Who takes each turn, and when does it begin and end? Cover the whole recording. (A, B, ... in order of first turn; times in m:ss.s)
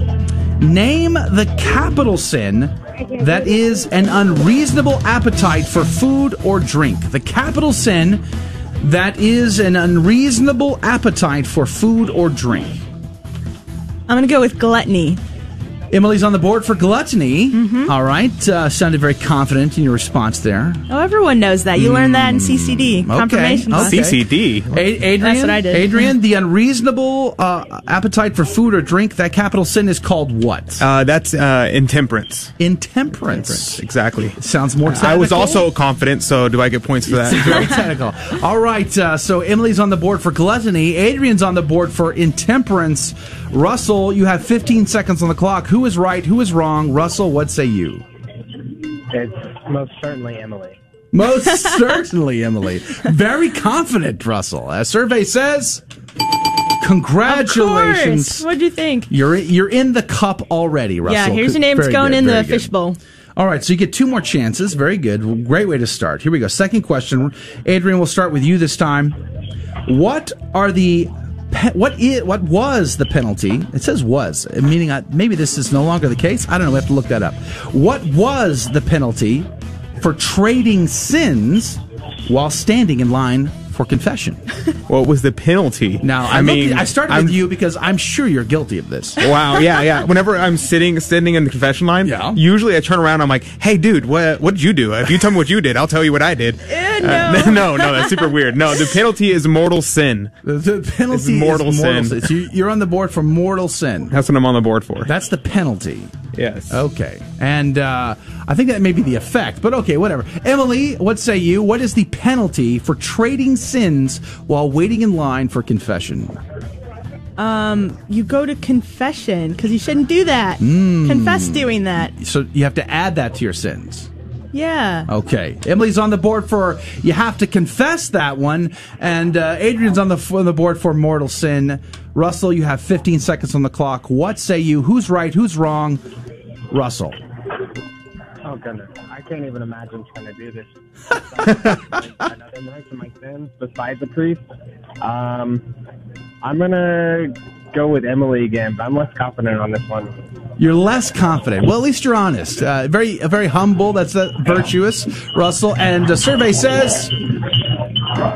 0:00.6-0:08.2 A
0:08.8-0:12.8 A
0:14.1-0:15.2 B
0:15.9-0:20.8 A
0:17.5-0:17.9 B
0:20.9-0:24.1 B
0:21.8-0:30.8 A
0:23.7-0:24.7 C
0:25.2-0:26.1 B
0:30.8-0:32.5 C
0:32.6-0:33.8 A
0:33.2-0:37.7 C
0:34.4-0:35.7 A
0:37.1-0:48.0 A
0:49.1-0:50.8 D
0:51.1-0:55.8 A
0:56.8-0:58.4 A
0:57.2-0:59.1 B
0:59.1-1:02.7 A
1:01.0-1:03.0 B
1:03.4-1:09.2 A
1:09.8-1:19.5 A
1:20.0-1:24.4 A
1:24.9-1:27.4 C
1:26.0-1:29.3 A
1:29.2-1:40.3 C
1:32.0-1:32.4 A
1:36.7-1:38.3 B
1:40.4-1:44.1 A
1:41.1-1:42.2 C
1:44.1-1:45.1 C
1:45.0-1:56.4 A
1:46.3-1:46.8 C
1:57.4-2:02.1 B
2:00.6-2:04.1 A
2:04.5-2:05.1 B
2:05.1-2:16.0 A
2:16.7-2:17.2 A
2:18.4-2:24.4 D
2:25.0-2:25.6 D
2:26.4-2:30.1 D
2:30.6-2:37.1 A